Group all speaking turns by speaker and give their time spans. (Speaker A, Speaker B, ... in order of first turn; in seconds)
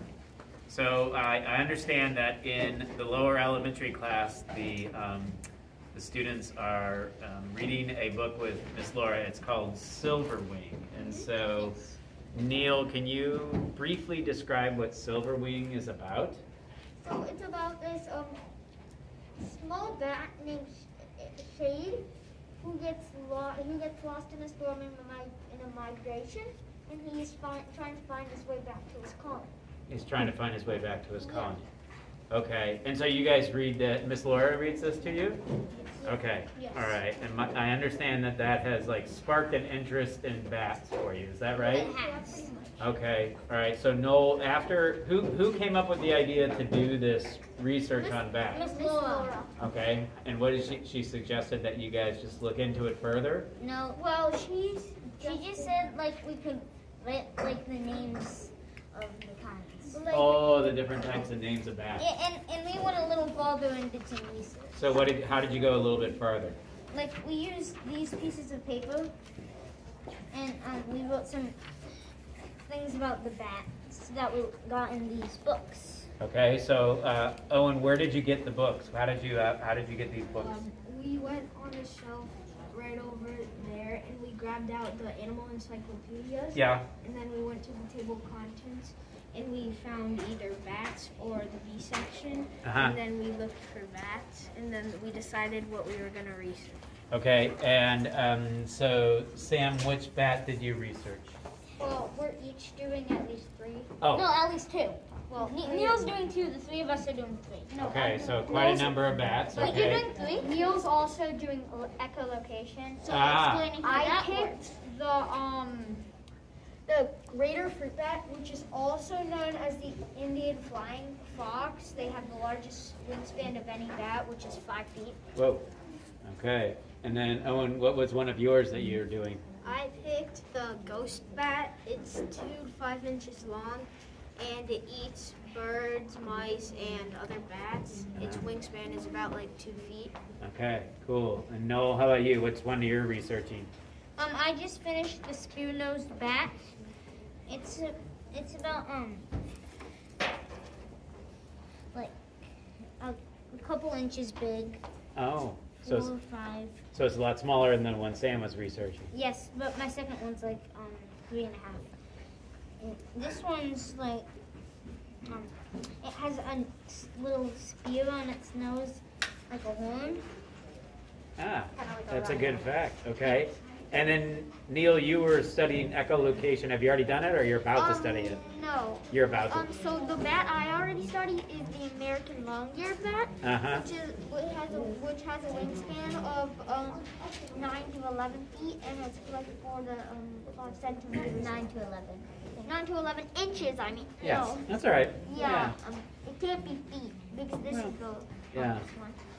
Speaker A: 0.7-5.4, 5.9-11.8, 12.3-16.4, 29.9-31.7, 32.3-35.4, 36.0-41.9, 42.8-48.6, 49.6-53.5, 60.1-62.1, 64.7-66.6, 76.2-80.6, 86.5-86.9, 92.6-93.0, 97.1-101.4, 104.0-104.3, 107.8-110.1, 113.1-113.7, 125.3-125.7, 126.2-129.4, 138.2-138.5, 140.4-143.7, 155.2-156.1, 156.9-159.1, 171.4-178.4, 179.1-179.7, 183.4-183.8, 194.2-195.8, 197.7-197.9, 198.5-198.8
Speaker B: 11.0-11.3, 17.0-18.4, 19.4-22.1, 22.6-29.5, 31.2-31.5, 48.0-49.5, 53.9-55.9, 59.9-60.5, 101.8-103.9, 105.3-105.9, 107.8-108.4, 110.4-115.0, 118.7-125.2, 177.7-191.6, 192.6-194.7, 195.2-199.2
Speaker C: 11.4-11.9, 41.6-42.5, 48.4-49.4, 53.6-54.0, 55.2-60.0, 62.0-65.0, 66.9-69.1, 70.3-71.6, 72.7-76.1, 104.1-109.0, 109.5-110.6, 113.2-114.6, 144.2-146.7, 147.5-149.3, 151.9-152.2, 153.0-154.8, 155.8-156.8, 159.1-161.9, 162.8-164.3, 165.2-170.2, 191.3-192.7
Speaker D: 41.6-42.8, 80.3-96.8, 105.3-106.0, 108.5-108.7, 114.6-116.0, 116.9-119.1, 129.6-140.2